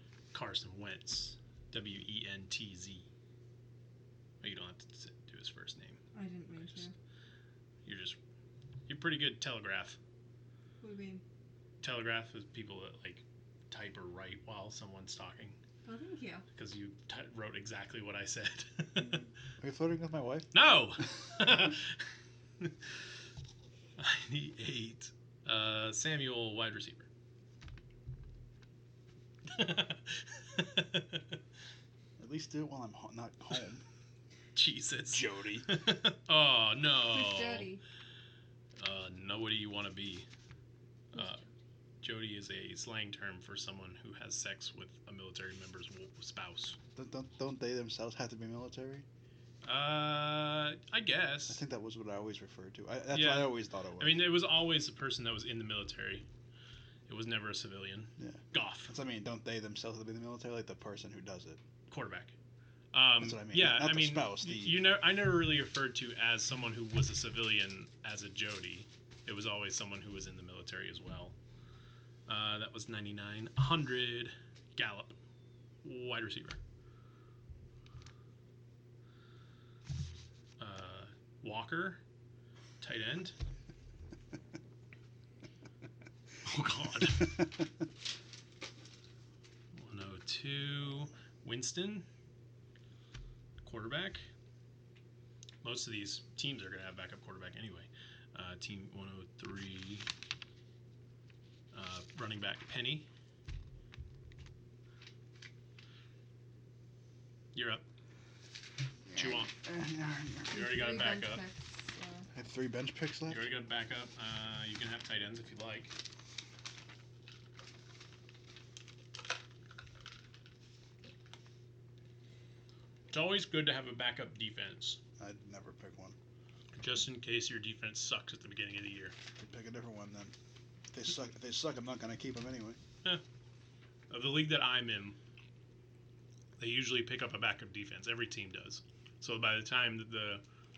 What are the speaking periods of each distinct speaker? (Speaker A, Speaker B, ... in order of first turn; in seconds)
Speaker A: 0.3-3.1, 4.4-6.0, 6.5-6.8, 7.8-8.2, 8.9-10.0, 11.8-15.6, 16.5-19.3, 20.5-22.0, 24.0-27.1, 29.5-31.4, 34.5-37.7, 38.8-40.3, 41.1-41.4, 42.0-46.8, 49.6-51.6, 53.1-56.2, 57.1-58.9, 61.9-62.3, 62.9-71.3, 72.3-75.2, 75.8-76.6, 80.6-82.0, 82.8-83.3, 86.4-87.5, 89.7-92.0, 93.6-94.2, 95.6-100.1, 101.7-103.1, 107.5-107.8, 109.1-109.5, 110.5-111.4, 113.3-115.9, 123.1-125.0, 126.7-129.1, 134.1-135.2, 136.6-140.4
Speaker B: 6.1-6.9, 10.8-11.2, 15.8-16.4, 36.9-37.8, 41.1-41.4, 109.1-109.5, 110.5-112.3
Speaker C: 19.6-20.5, 32.2-33.8, 35.1-35.8, 46.9-49.0, 51.5-54.3, 58.2-61.6, 63.2-64.8, 109.5-110.6, 112.3-113.5, 125.2-126.2, 129.4-130.3, 130.9-132.8